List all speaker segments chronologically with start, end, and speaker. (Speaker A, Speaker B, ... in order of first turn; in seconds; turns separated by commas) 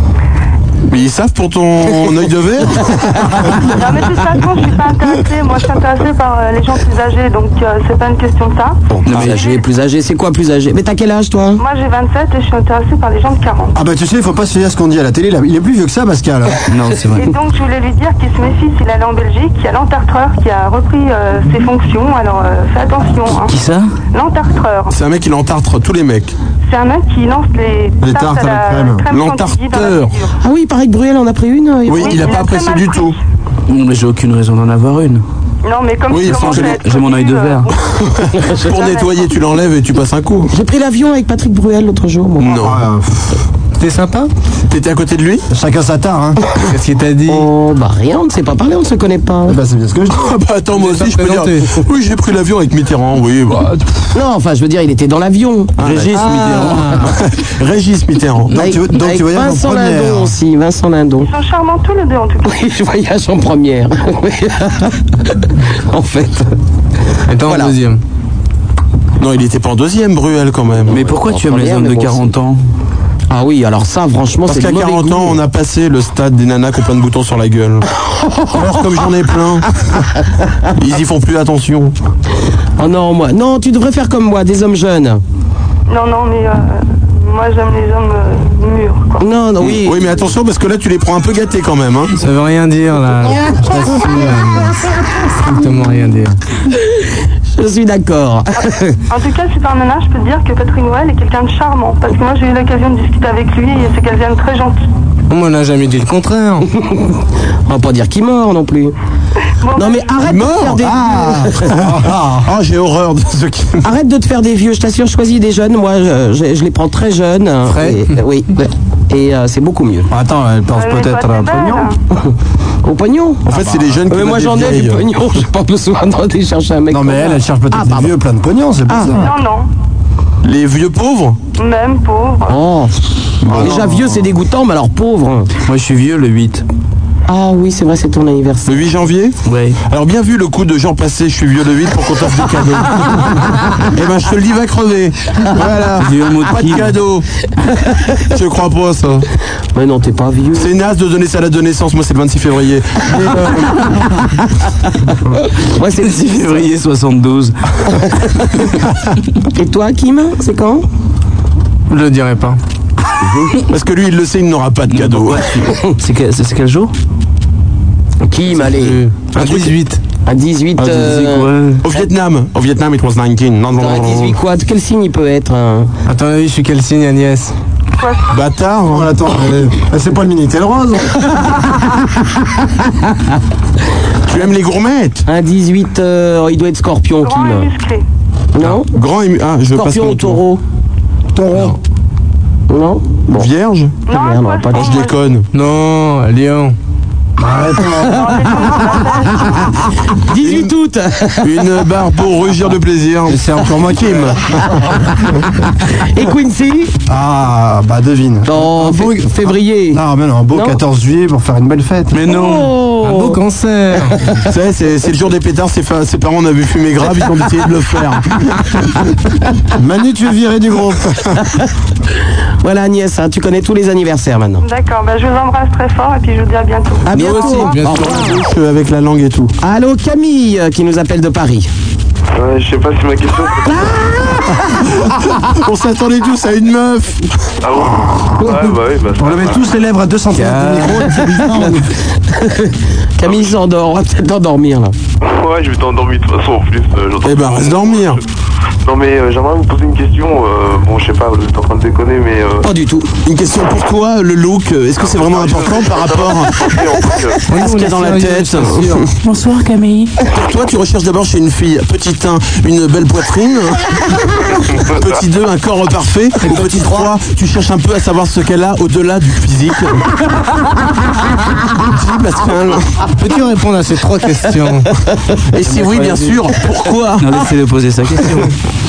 Speaker A: 0.9-3.3, Speaker B: 3.7-9.6, Speaker C: 8.9-11.6, Speaker D: 9.1-9.4, Speaker B: 11.6-13.7, Speaker E: 13.7-16.6, Speaker D: 16.7-17.3, Speaker B: 17.1-23.6, Speaker D: 23.4-23.9, Speaker B: 24.1-24.9, Speaker A: 24.9-26.3, Speaker B: 26.7-30.4, Speaker E: 28.0-29.0, Speaker A: 29.1-30.2, Speaker C: 30.4-32.3, Speaker A: 31.9-33.1, Speaker B: 31.9-33.2, Speaker D: 33.7-35.2, Speaker B: 35.6-39.3, Speaker A: 36.1-36.9, Speaker D: 36.2-37.7, Speaker A: 38.2-40.5, Speaker C: 38.4-38.7, Speaker C: 40.5-42.6, Speaker A: 42.4-42.8, Speaker E: 42.5-43.2, Speaker F: 43.8-44.3, Speaker A: 44.7-45.5, Speaker E: 45.5-46.4, Speaker F: 46.6-47.5, Speaker C: 47.3-49.6, Speaker E: 49.5-50.2, Speaker A: 50.1-53.8, Speaker F: 50.7-51.8, Speaker C: 54.1-57.0, Speaker A: 55.8-58.6, Speaker D: 55.9-56.4, Speaker E: 58.5-60.3, Speaker C: 58.5-61.3, Speaker B: 61.2-62.6, Speaker C: 62.4-66.5, Speaker F: 67.3-68.0, Speaker C: 67.5-67.8, Speaker A: 69.2-71.0, Speaker D: 70.9-72.6, Speaker C: 70.9-72.3, Speaker C: 73.3-75.4, Speaker A: 74.5-77.8, Speaker A: 78.5-79.7, Speaker A: 80.8-81.9, Speaker C: 82.8-85.2, Speaker B: 85.9-89.3, Speaker C: 89.2-90.2, Speaker A: 89.6-92.1, Speaker F: 92.2-96.4, Speaker C: 97.5-99.0, Speaker B: 99.1-104.8, Speaker F: 105.3-106.7, Speaker C: 106.7-108.9, Speaker B: 109.6-110.2, Speaker C: 109.7-111.7, Speaker A: 110.2-113.8, Speaker E: 111.2-112.5, Speaker C: 113.8-120.1, Speaker F: 117.7-118.1, Speaker E: 120.1-121.9, Speaker B: 120.7-122.0, Speaker C: 122.8-123.5, Speaker A: 123.5-125.0, Speaker C: 124.1-128.1, Speaker E: 126.9-129.3, Speaker C: 128.9-129.2, Speaker B: 129.1-129.7, Speaker A: 130.4-131.4, Speaker B: 131.6-132.6, Speaker C: 132.5-132.9, Speaker D: 133.4-133.8, Speaker C: 133.5-135.5, Speaker E: 133.9-134.1, Speaker D: 135.6-136.6, Speaker C: 137.3-138.7, Speaker A: 138.7-147.2, Speaker D: 139.4-139.8, Speaker D: 146.0-147.0, Speaker A: 148.3-149.2, Speaker C: 149.7-150.7, Speaker A: 150.5-153.9, Speaker C: 155.6-156.6, Speaker D: 156.0-157.5, Speaker C: 159.5-160.8, Speaker F: 161.9-162.6, Speaker A: 163.7-165.5, Speaker D: 164.9-166.9, Speaker C: 168.2-169.0, Speaker F: 168.5-170.0, Speaker A: 169.3-169.8, Speaker C: 170.2-171.5, Speaker D: 170.9-171.8, Speaker A: 171.8-174.4, Speaker C: 173.8-175.9, Speaker F: 176.1-177.5, Speaker B: 178.0-178.4, Speaker A: 178.3-179.1, Speaker E: 178.9-181.2, Speaker A: 184.3-185.2, Speaker C: 185.2-187.7, Speaker B: 187.2-188.0, Speaker C: 188.5-188.9, Speaker A: 188.6-190.4, Speaker C: 189.7-190.6, Speaker E: 191.3-191.8, Speaker C: 192.7-193.5, Speaker A: 193.3-194.0, Speaker B: 194.1-195.2, Speaker C: 194.1-195.0, Speaker A: 194.7-195.4, Speaker F: 195.5-196.8, Speaker E: 197.4-198.5, Speaker C: 197.8-198.7, Speaker B: 198.0-199.8, Speaker C: 199.5-201.5, Speaker A: 200.4-200.7, Speaker A: 201.4-204.4, Speaker E: 203.3-204.3, Speaker C: 205.9-206.9, Speaker E: 207.1-212.2, Speaker C: 208.4-210.8, Speaker D: 212.1-212.7, Speaker C: 212.2-213.4, Speaker F: 213.0-214.4, Speaker A: 214.5-218.6, Speaker E: 219.8-221.2, Speaker C: 222.6-224.6, Speaker B: 224.6-227.5, Speaker C: 227.1-228.4, Speaker A: 227.1-229.5, Speaker F: 227.5-228.1, Speaker C: 229.6-231.7, Speaker G: 232.3-233.9, Speaker C: 233.7-234.5, Speaker A: 234.9-237.2, Speaker G: 237.6-239.7, Speaker E: 239.2-241.9, Speaker D: 240.4-241.1, Speaker C: 242.3-244.9, Speaker G: 243.2-243.6, Speaker G: 245.2-248.2, Speaker A: 247.2-248.2, Speaker G: 248.8-252.7, Speaker C: 252.6-253.1, Speaker A: 253.2-259.1, Speaker G: 255.0-257.4, Speaker F: 257.5-259.1, Speaker D: 259.2-260.1, Speaker A: 260.3-263.9, Speaker A: 264.8-270.0, Speaker F: 266.4-267.1, Speaker A: 271.8-272.9, Speaker F: 273.2-274.9, Speaker A: 275.5-277.2, Speaker F: 275.6-276.4, Speaker C: 276.8-277.2, Speaker D: 277.2-278.5